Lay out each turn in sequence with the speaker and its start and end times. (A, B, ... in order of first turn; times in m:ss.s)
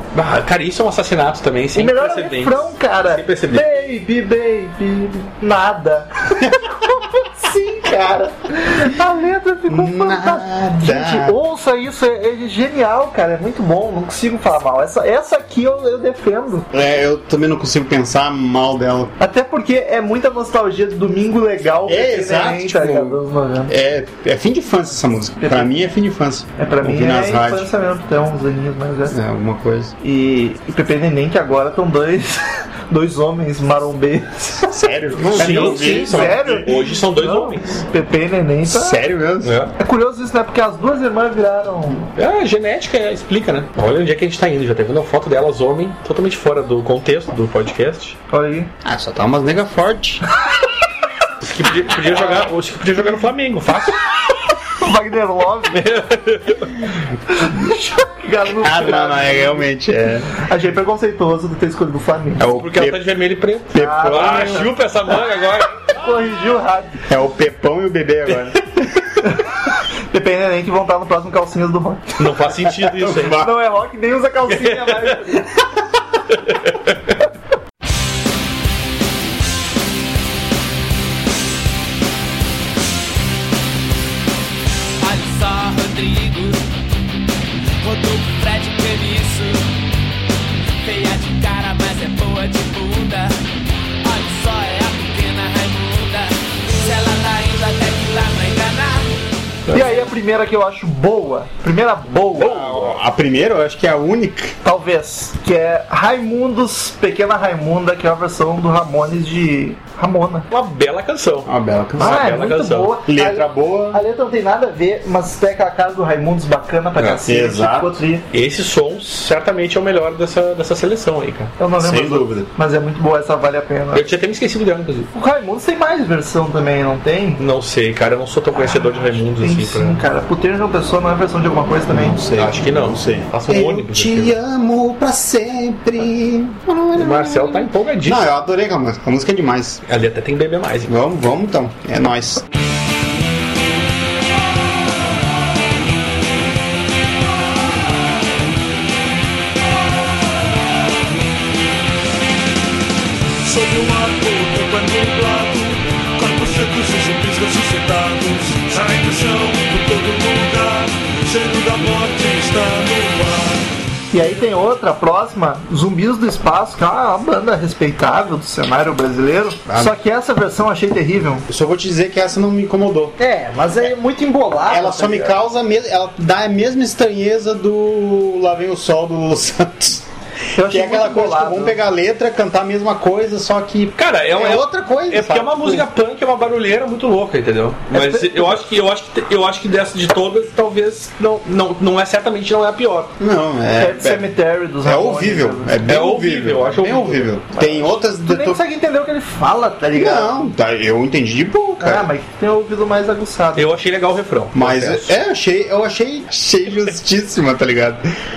0:00.1-0:03.7 A
0:01.8-0:16.7 B
0:09.7-0:11.4 C
0:16.7-0:19.1 C
0:19.2-0:23.7 B
0:21.9-0:27.7 C
0:25.4-0:25.7 B
0:26.6-0:29.2 B
0:29.1-0:29.9 C
0:30.0-0:39.0 B
0:34.6-0:36.7 C
0:35.3-0:37.8 A
0:38.6-0:39.6 C
0:39.4-0:39.7 A
0:39.8-0:42.1 B
0:42.2-0:48.2 A
0:48.3-0:48.7 B
0:48.8-0:50.2 C
0:51.4-0:54.0 A
0:54.8-0:55.8 B
0:55.7-0:56.8 A
0:57.3-0:59.7 B
0:58.6-1:00.3 C
1:00.4-1:02.5 B
1:02.4-1:03.0 C
1:02.6-1:05.9 A
1:03.7-1:04.7 C
1:03.8-1:04.8 B
1:06.0-1:07.0 B
1:07.1-1:08.6 C
1:09.2-1:09.5 B
1:10.1-1:12.2 B
1:12.2-1:13.5 A
1:12.8-1:13.5 C
1:13.4-1:15.5 B
1:14.5-1:15.2 A
1:16.4-1:17.0 A
1:25.0-1:26.8 D
1:27.8-1:29.8 D
1:30.8-1:33.4 D
1:34.0-1:39.2 D
1:39.7-1:40.0 A
1:39.7-1:42.7 B
1:42.4-1:43.0 A
1:42.4-1:44.6 C
1:44.6-1:50.5 B
1:50.5-1:53.0 A
1:51.5-1:52.4 C
1:52.0-1:58.2 B
1:53.1-1:54.0 C
1:57.2-1:58.0 C
1:58.3-2:01.5 A
2:01.6-2:04.1 B
2:01.8-2:02.5 C
2:03.9-2:05.1 A
2:05.1-2:07.4 B
2:07.4-2:10.0 A
2:08.5-2:12.2 B
2:11.9-2:19.8 C
2:12.4-2:14.3 A
2:17.0-2:18.3 A
2:19.9-2:20.9 A
2:20.9-2:22.4 C
2:33.4-2:43.7 E
2:44.1-2:51.5 B
2:49.7-2:49.9 C
2:51.5-2:53.2 C
2:53.2-2:55.4 B
2:54.7-3:00.0 C
3:00.6-3:01.8 B
3:00.6-3:05.9 C
3:04.0-3:13.1 A
3:07.9-3:08.6 B
3:13.2-3:14.3 C
3:13.8-3:15.8 B
3:14.8-3:18.6 C
3:15.8-3:17.3 A
3:17.6-3:20.4 B
3:19.9-3:22.1 C
3:21.8-3:23.7 B
3:23.6-3:25.1 A
3:24.5-3:28.1 C